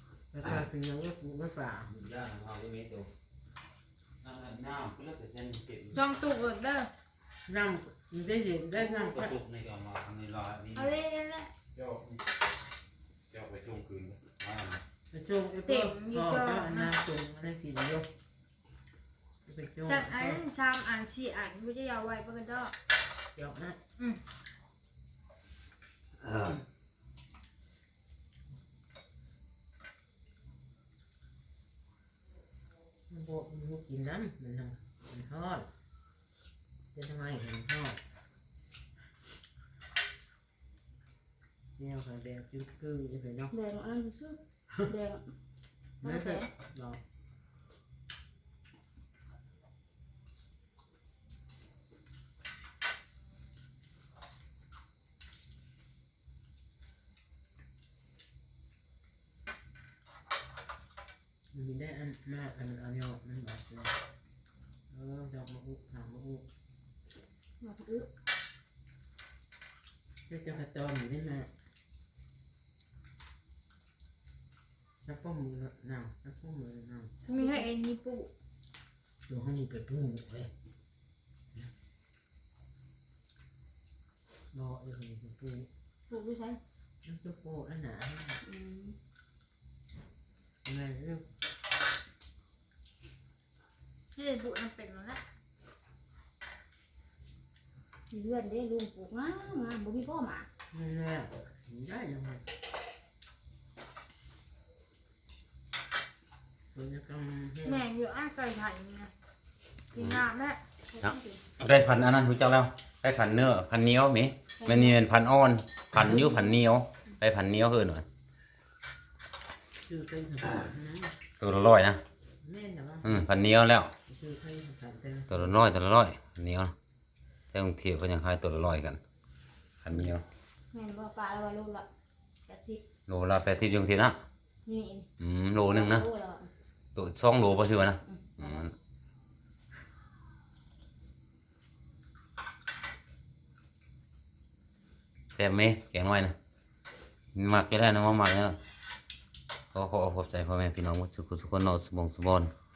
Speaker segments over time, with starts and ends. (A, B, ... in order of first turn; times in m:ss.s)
0:00.3-0:01.9 A
0:01.9-0:03.1 B
0:04.2-0:06.0 B
0:05.9-0:06.9 C
0:07.4-0:09.4 A
0:08.7-0:11.0 B
0:10.7-0:11.5 C
0:11.7-0:12.3 B
0:13.3-0:14.8 B
0:15.1-0:18.1 A
0:15.6-0:17.0 C
0:19.4-0:20.4 A
0:19.9-0:22.7 C
0:23.3-0:23.8 A
0:33.1-0:35.7 A
0:36.9-0:38.0 A
0:41.8-0:43.5 A
0:43.5-0:45.3 D
0:46.0-0:46.5 D
0:46.0-0:47.0 A
1:01.5-1:03.9 A
1:04.9-1:06.5 A
1:07.6-1:08.1 D
1:10.3-1:11.5 A
1:15.0-1:17.2 A
1:17.2-1:18.3 C
1:17.2-1:17.7 D
1:19.3-1:20.5 A
1:24.5-1:25.7 A
1:26.1-1:26.6 D
1:27.0-1:28.4 A
1:28.4-1:29.0 D
1:30.6-1:31.3 A
1:34.1-1:35.2 C
1:38.1-1:40.5 D
1:40.7-1:42.4 A
1:46.7-1:47.9 A
1:47.6-1:49.1 C
1:49.9-1:50.6 C
1:50.0-1:50.2 B
1:50.9-1:51.4 D
1:51.0-1:58.0 B
1:54.6-1:55.0 D
1:55.9-1:56.2 A
1:59.8-2:01.2 A
2:01.4-2:02.0 B
2:02.4-2:03.2 A
2:03.0-2:03.9 B
2:04.1-2:05.6 A
2:05.3-2:06.7 B
2:07.5-2:09.0 B
2:09.8-2:10.2 B
2:10.7-2:11.8 D
2:12.4-2:12.8 D
2:13.1-2:14.2 B
2:14.6-2:15.1 D
2:15.2-2:16.0 B
2:15.7-2:16.5 D
2:16.9-2:18.7 B
2:18.1-2:18.6 D
2:25.3-2:26.4 B
2:27.3-2:28.6 B
2:29.7-2:32.5 B